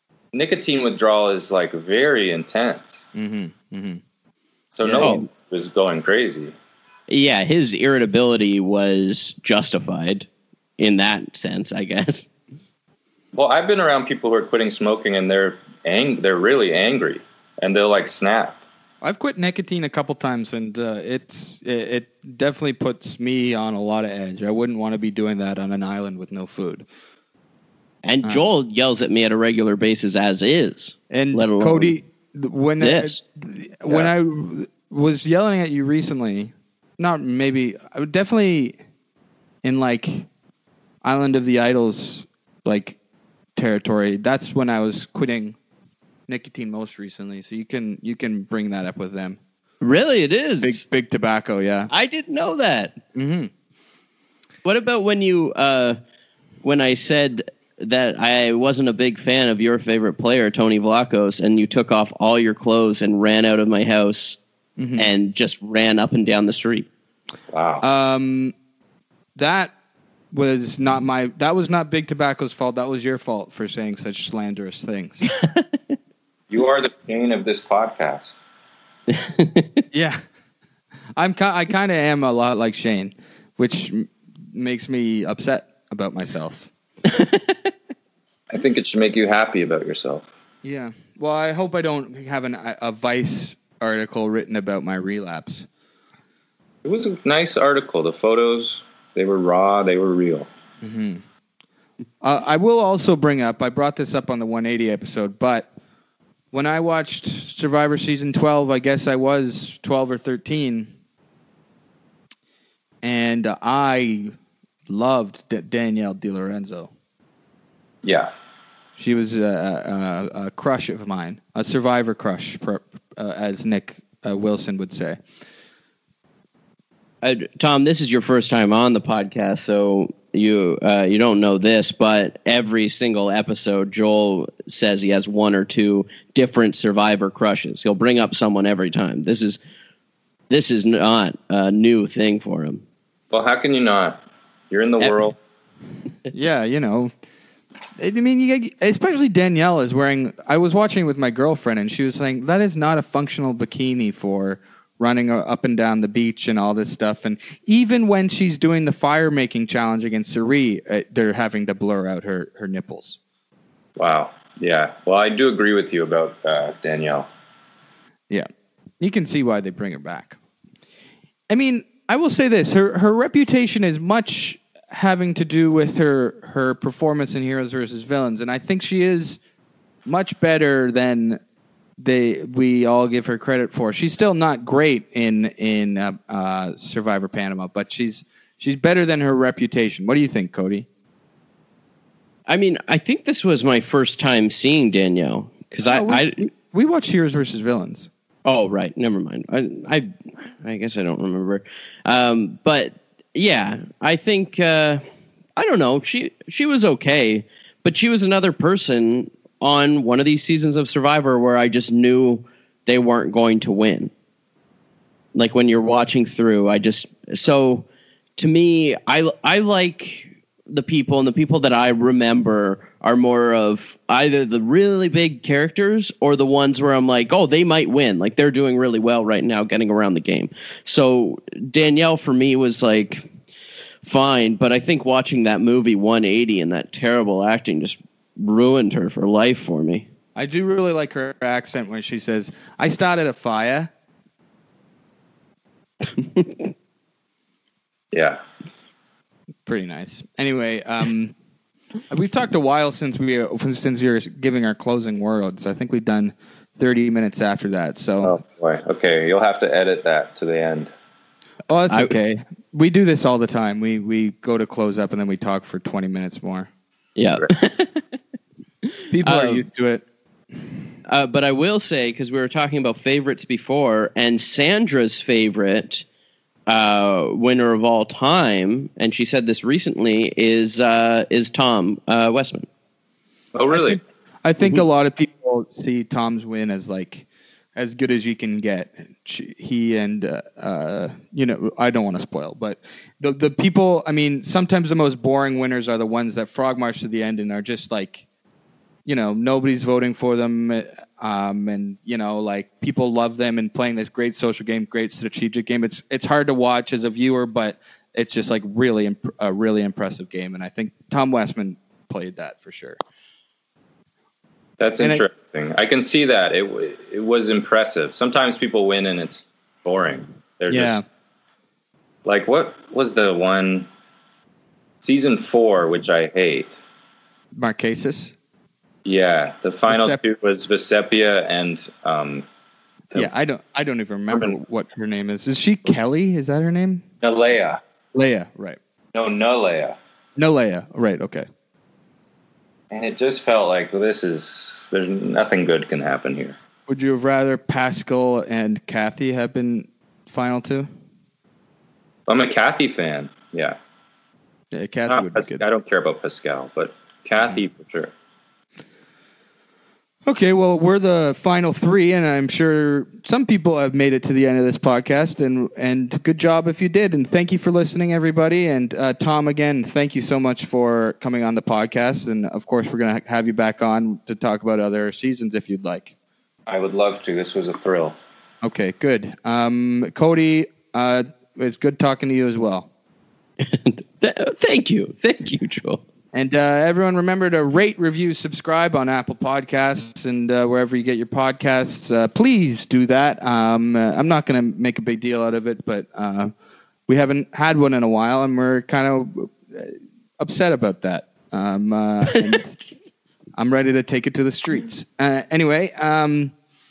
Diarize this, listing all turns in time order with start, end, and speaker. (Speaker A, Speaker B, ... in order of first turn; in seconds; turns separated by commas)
Speaker A: 0.3-3.0, Speaker B: 3.1-4.0, Speaker A: 4.8-6.5, Speaker B: 4.8-5.2, Speaker C: 5.0-5.3, Speaker C: 7.1-10.3, Speaker C: 10.8-12.3, Speaker A: 13.3-18.6, Speaker B: 19.0-26.9, Speaker C: 28.0-32.0, Speaker B: 28.2-28.5, Speaker B: 31.1-38.8, Speaker C: 32.8-33.2, Speaker B: 39.6-40.3, Speaker B: 41.0-43.0, Speaker B: 43.6-45.6, Speaker B: 46.3-49.4, Speaker C: 49.8-50.8, Speaker B: 50.6-51.9, Speaker C: 51.9-53.0, Speaker B: 53.1-53.5, Speaker C: 54.6-56.0, Speaker C: 56.6-64.4, Speaker B: 64.8-65.1, Speaker C: 65.0-66.9, Speaker A: 67.5-67.8, Speaker B: 67.8-68.5, Speaker B: 69.4-69.7, Speaker B: 70.3-75.3, Speaker A: 76.5-78.4, Speaker C: 79.1-79.8, Speaker B: 79.9-80.2, Speaker B: 81.2-86.7, Speaker C: 87.1-87.7, Speaker A: 88.5-90.3, Speaker B: 90.6-95.7, Speaker A: 96.8-100.5, Speaker B: 100.8-101.2, Speaker B: 102.2-105.7, Speaker B: 106.5-110.9, Speaker B: 113.0-114.3, Speaker B: 114.9-116.9, Speaker A: 118.0-118.3, Speaker B: 119.0-125.2, Speaker C: 127.2-139.6, Speaker C: 140.5-142.8, Speaker A: 143.3-145.3, Speaker B: 146.3-147.1, Speaker B: 148.0-163.2, Speaker A: 164.0-167.3, Speaker B: 169.0-170.4, Speaker B: 171.5-179.4, Speaker B: 180.1-181.4, Speaker B: 182.0-190.9, Speaker C: 192.5-196.4, Speaker B: 195.9-198.1, Speaker C: 198.5-205.0, Speaker C: 205.6-214.1, Speaker C: 215.3-217.8, Speaker C: 218.4-233.3, Speaker C: 234.0-240.1, Speaker B: 240.4-243.9, Speaker C: 246.2-246.7, Speaker A: 248.1-248.4, Speaker B: 249.7-251.3, Speaker B: 252.1-258.4, Speaker A: 258.2-260.9, Speaker B: 261.7-266.7, Speaker C: 261.9-262.1, Speaker C: 267.2-268.0, Speaker B: 269.1-270.0, Speaker C: 269.2-269.6, Speaker C: 271.1-276.0, Speaker C: 276.7-282.7, Speaker A: 283.5-284.0, Speaker B: 283.7-298.2, Speaker B: 299.1-313.0, Speaker A: 314.8-321.0, Speaker B: 320.7-321.0, Speaker A: 322.2-323.9, Speaker A: 325.0-326.8, Speaker B: 327.6-328.3, Speaker A: 329.1-332.4, Speaker B: 329.9-330.2, Speaker B: 333.1-337.0, Speaker A: 334.3-334.6, Speaker A: 337.2-337.8, Speaker B: 338.1-338.8, Speaker A: 339.1-340.0, Speaker B: 340.4-341.5, Speaker A: 342.9-346.6, Speaker B: 346.9-350.9, Speaker A: 352.3-353.8, Speaker B: 354.7-355.6, Speaker A: 355.1-358.1, Speaker B: 360.3-376.1, Speaker A: 376.7-378.1, Speaker B: 378.6-382.9, Speaker C: 383.6-386.0, Speaker B: 386.3-396.5, Speaker B: 397.1-402.7, Speaker B: 403.6-406.5